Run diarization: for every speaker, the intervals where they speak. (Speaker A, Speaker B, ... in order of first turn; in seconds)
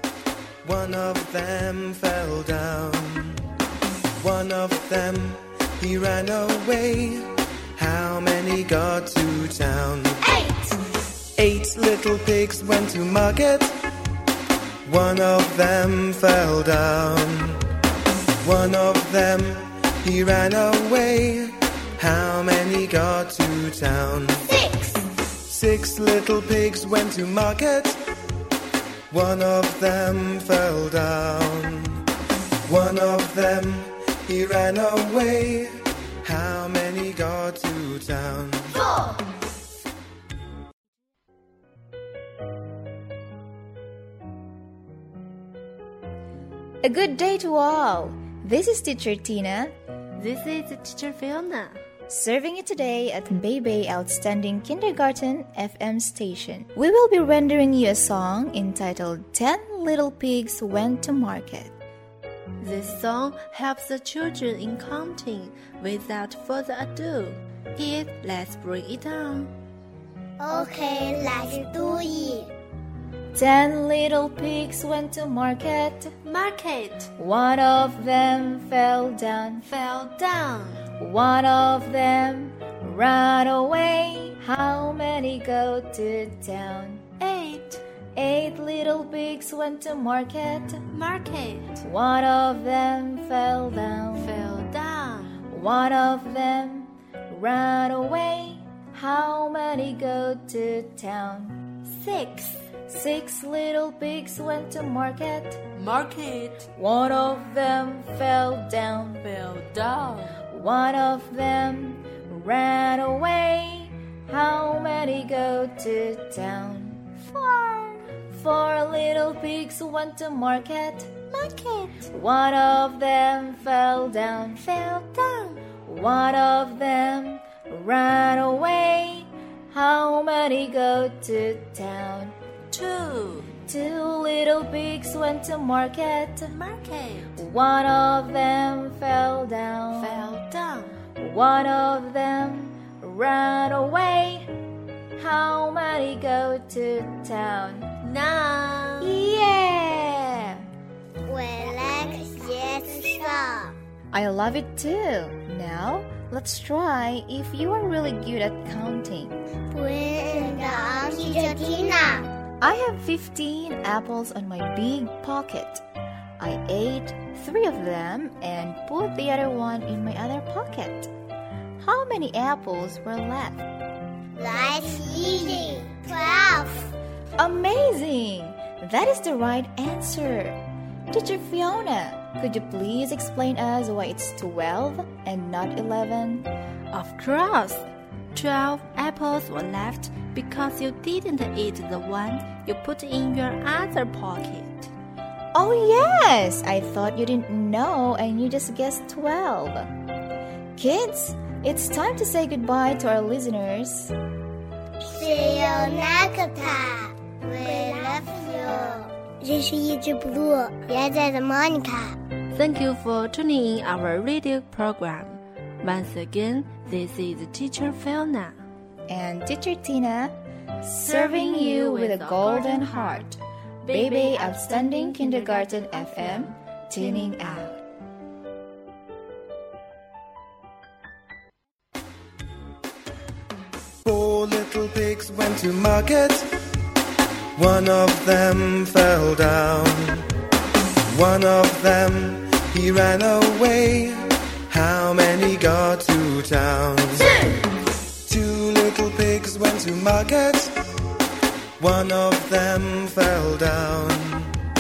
Speaker A: 0.6-3.4, 4.2-10.2, 11.4-13.8, 14.9-17.6, 18.4-24.7, 25.4-28.0, 29.1-32.0, 32.6-38.9, 234.0-236.5, 237.6-240.3, 241.0-247.5, 248.2-250.7, 251.8-254.6
Speaker B: 10.2-10.8, 46.8-49.7, 52.1-61.7, 73.3-76.1, 77.2-79.7, 81.0-87.1, 88.1-90.8, 91.8-94.5, 95.5-101.6, 102.9-105.6, 106.8-109.2, 110.5-117.1, 118.3-121.1, 122.1-124.6, 125.8-132.3, 133.7-136.5, 137.4-140.2, 141.2-144.5, 145.2-147.9, 149.0-150.7, 154.1-159.4, 162.6-165.8, 166.4-171.1, 171.8-173.7, 177.4-180.6, 181.1-186.5, 195.5-199.9, 200.8-204.1, 219.1-223.3, 223.9-227.8
Speaker C: 50.2-51.8, 62.6-69.5, 76.2-77.1, 79.6-80.9, 87.2-87.8, 90.9-91.8, 94.1-95.4, 101.8-102.7, 105.8-106.7, 109.2-110.4, 117.2-118.0, 121.3-122.1, 124.6-125.6, 132.7-133.5, 136.5-137.4, 139.9-141.0, 148.0-149.3, 186.9-194.9, 212.5-218.6, 220.8-227.5
Speaker D: 70.4-72.5, 151.2-153.8, 159.7-162.3, 174.3-176.9, 205.0-212.2